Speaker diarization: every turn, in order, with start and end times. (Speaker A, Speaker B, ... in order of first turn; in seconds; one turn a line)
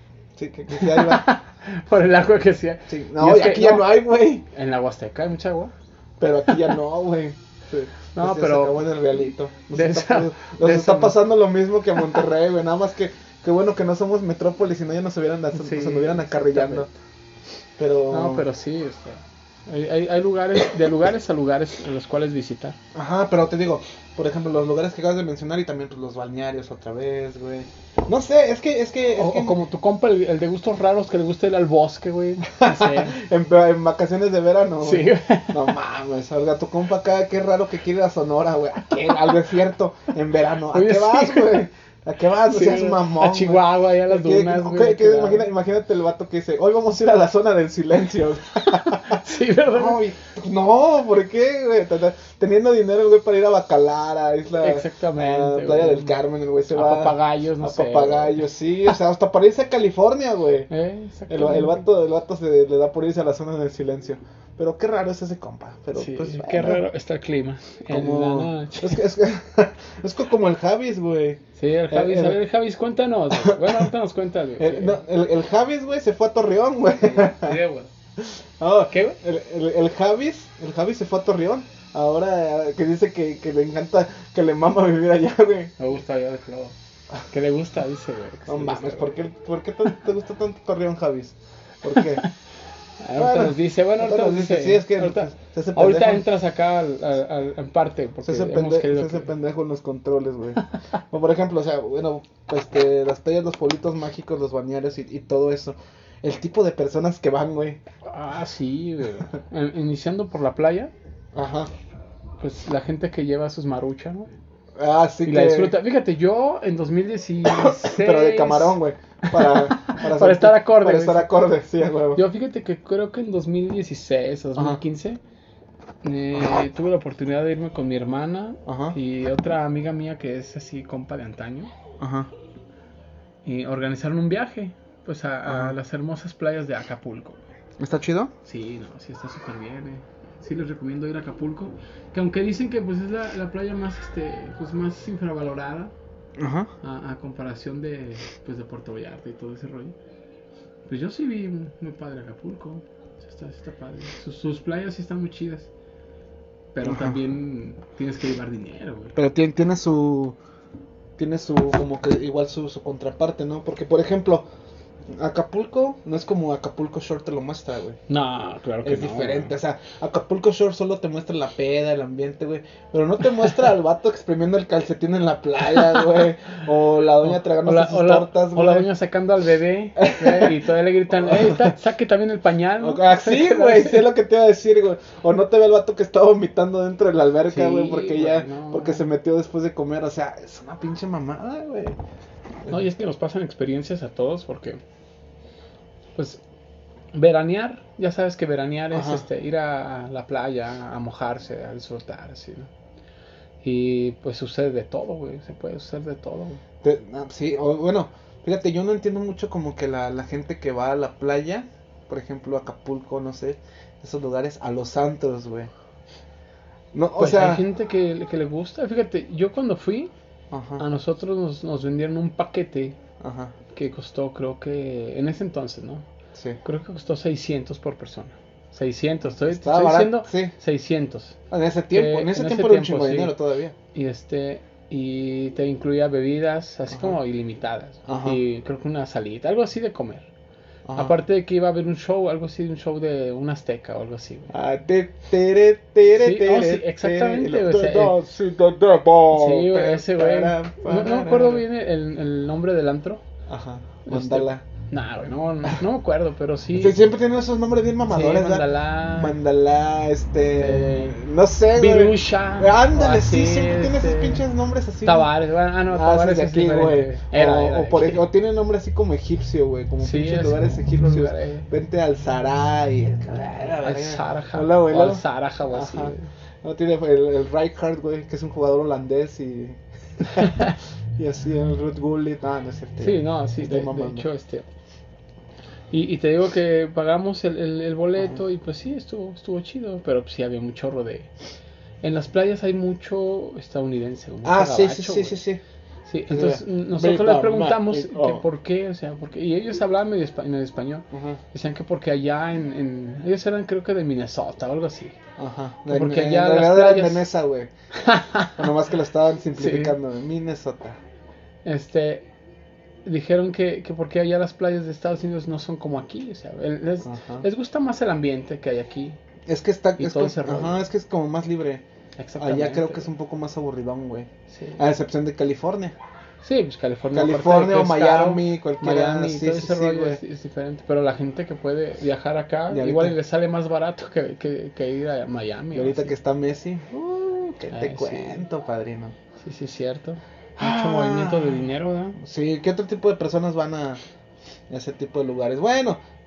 Speaker A: 0.3-1.3
Speaker B: 0.7-5.7
Speaker A: 2.9-4.4
Speaker A: 6.2-16.9
Speaker B: 6.5-6.7
Speaker B: 8.1-8.9
Speaker B: 9.7-11.2
Speaker B: 15.5-16.9
Speaker A: 17.8-18.4
Speaker B: 18.1-22.8
Speaker A: 22.9-29.6
Speaker B: 29.1-33.2
Speaker A: 32.5-60.7
Speaker B: 34.8-35.6
Speaker B: 40.7-41.7
Speaker B: 42.5-45.5
Speaker B: 48.7-50.0
Speaker B: 54.6-56.2
Speaker B: 56.7-58.4
Speaker B: 60.7-61.8
Speaker A: 61.3-66.8
Speaker B: 66.0-69.0
Speaker A: 67.9-72.4
Speaker B: 71.6-75.0
Speaker A: 73.3-73.9
Speaker A: 74.6-77.6
Speaker B: 77.0-77.9
Speaker A: 78.2-85.7
Speaker B: 78.9-79.2
Speaker B: 85.8-89.1
Speaker A: 88.5-92.3
Speaker B: 93.0-99.3
Speaker A: 93.2-96.2
Speaker A: 98.2-107.8
Speaker B: 108.0-110.9
Speaker A: 111.3-111.7
Speaker B: 112.4-114.3
Speaker A: 114.8-115.8
Speaker B: 115.2-121.4
Speaker A: 117.4-122.2
Speaker B: 122.1-125.2
Speaker A: 124.5-124.8
Speaker B: 126.0-131.7
Speaker A: 128.6-128.9
Speaker A: 132.0-132.3
Speaker B: 133.4-137.4
Speaker A: 135.4-135.8
Speaker A: 137.8-138.3
Speaker B: 138.4-145.9
Speaker A: 146.4-146.7
Speaker B: 146.8-149.9
Speaker B: 150.9-155.7
Speaker B: 156.7-159.2
Speaker A: 156.8-157.2
Speaker A: 159.1-160.4
Speaker A: 161.2-164.5
Speaker A: 165.1-168.0
Speaker B: 168.1-169.5
Speaker A: 168.8-178.9
Speaker B: 177.2-184.1
Speaker A: 180.0-180.6
Speaker A: 181.1-181.7
Speaker A: 182.8-192.0
Speaker B: 187.5-189.0
Speaker B: 192.7-194.8
Speaker B: 196.2-196.4
Speaker B: 197.1-202.7
Speaker A: 198.9-199.2
Speaker B: 203.6-206.6
Speaker A: 206.8-215.7
Speaker A: 216.9-217.6
Speaker B: 217.2-220.1
Speaker A: 220.5-220.8
Speaker B: 220.8-223.0
Speaker A: 223.2-223.5
Speaker B: 223.7-226.1
Speaker A: 226.3-226.6
Speaker B: 226.6-231.4
Speaker A: 229.5-230.5
Speaker A: 231.5-233.7
Speaker B: 231.9-233.3
Speaker B: 233.9-240.3
Speaker A: 236.9-237.2
Speaker A: 238.1-238.4
Speaker A: 240.9-241.1
Speaker B: 240.9-244.5
Speaker A: 244.5-251.6
Speaker B: 246.1-248.2
Speaker B: 249.3-253.2
Speaker A: 253.5-254.6
Speaker B: 254.0-257.0
Speaker A: 256.7-265.3
Speaker B: 258.1-259.4
Speaker B: 260.4-261.2
Speaker B: 261.7-264.4
Speaker B: 265.0-268.2
Speaker A: 265.9-284.3
Speaker B: 270.0-271.7
Speaker B: 273.8-276.3
Speaker B: 280.4-280.7
Speaker B: 283.0-284.7
Speaker B: 285.9-291.3
Speaker B: 292.0-295.4
Speaker A: 294.4-295.6
Speaker B: 296.1-305.1
Speaker A: 296.3-298.4
Speaker A: 301.1-301.4
Speaker A: 305.4-307.7
Speaker B: 305.9-307.3
Speaker B: 307.9-308.6
Speaker A: 308.6-311.0
Speaker B: 309.5-309.9
Speaker B: 311.6-312.3
Speaker B: 313.0-319.2
Speaker A: 317.0-317.4
Speaker A: 319.4-321.8
Speaker B: 320.0-320.8
Speaker B: 322.2-323.1
Speaker A: 322.4-325.9
Speaker B: 324.5-324.8
Speaker B: 326.4-336.1
Speaker A: 327.1-330.2
Speaker A: 332.7-333.2
Speaker A: 335.7-339.1
Speaker B: 337.7-338.4
Speaker B: 339.4-342.2
Speaker A: 340.6-344.0
Speaker A: 344.7-346.0